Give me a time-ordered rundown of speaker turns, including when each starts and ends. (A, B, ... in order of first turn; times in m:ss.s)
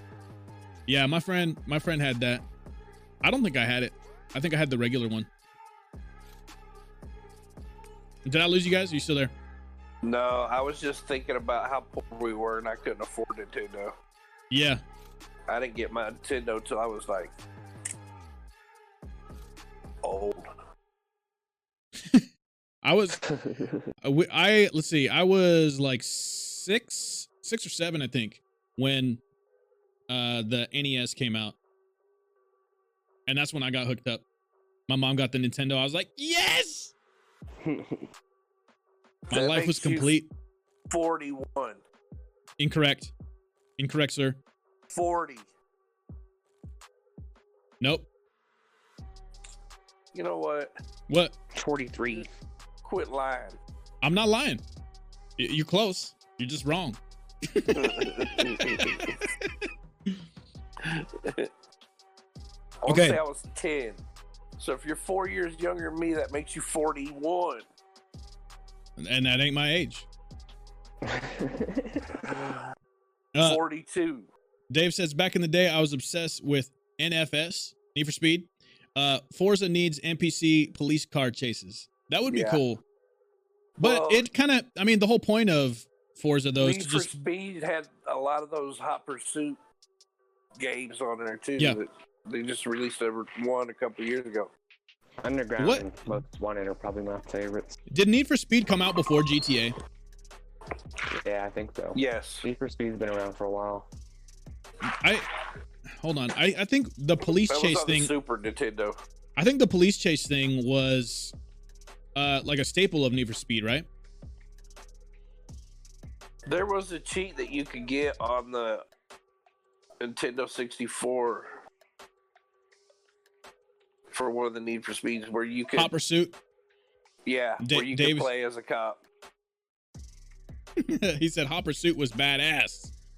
0:00.9-0:02.4 A
0:03.2-0:05.3 A
0:08.2-0:09.3 A
0:10.0-0:13.9 B
0:14.5-0:14.8 A
0:15.5-0:17.3 B
0:20.0-0:20.5 B
0:22.8-0:23.2 A
0:23.3-0:23.8 C
0:24.0-0:29.2 A
0:30.1-0:31.6 A
0:33.3-0:34.2 A
0:34.9-0:36.9 A
0:37.6-0:38.1 C
0:39.3-0:40.1 B
0:39.3-0:40.3 A
0:40.9-0:41.8 B
0:42.6-0:43.1 A
0:43.8-0:44.4 A
0:44.9-0:45.4 B
0:47.8-0:48.1 A
0:50.1-0:50.7 B
0:51.1-0:51.3 A
0:51.5-0:52.3 C
0:52.8-0:53.6 B
0:54.0-0:54.6 A
0:55.4-0:57.0 A
0:57.5-0:58.8 A
0:57.7-0:59.1 B
1:00.8-1:01.5 B
1:02.8-1:04.0 B
1:02.9-1:03.2 A
1:04.6-1:07.6 B
1:09.0-1:10.1 A
1:11.0-1:12.3 C
1:13.3-1:13.6 A
1:13.4-1:14.3 B
1:14.7-1:22.8 A
1:22.3-1:22.6 B
1:23.8-1:24.2 B
1:23.8-1:27.2 A
1:26.6-1:29.6 B
1:30.6-1:34.5 B
1:35.2-1:37.8 C
1:35.6-1:35.9 A
1:37.9-1:39.8 A
1:41.1-1:43.8 C
1:41.9-1:42.4 B
1:44.9-1:45.3 A
1:46.0-1:48.1 A
1:47.5-1:49.0 B
1:49.4-1:51.3 A
1:52.1-1:53.8 A
1:56.4-1:58.8 B
2:00.0-2:01.6 B
2:04.1-2:05.9 B
2:05.7-2:06.4 A
2:07.2-2:09.0 B
2:07.6-2:08.3 A
2:10.8-2:12.9 A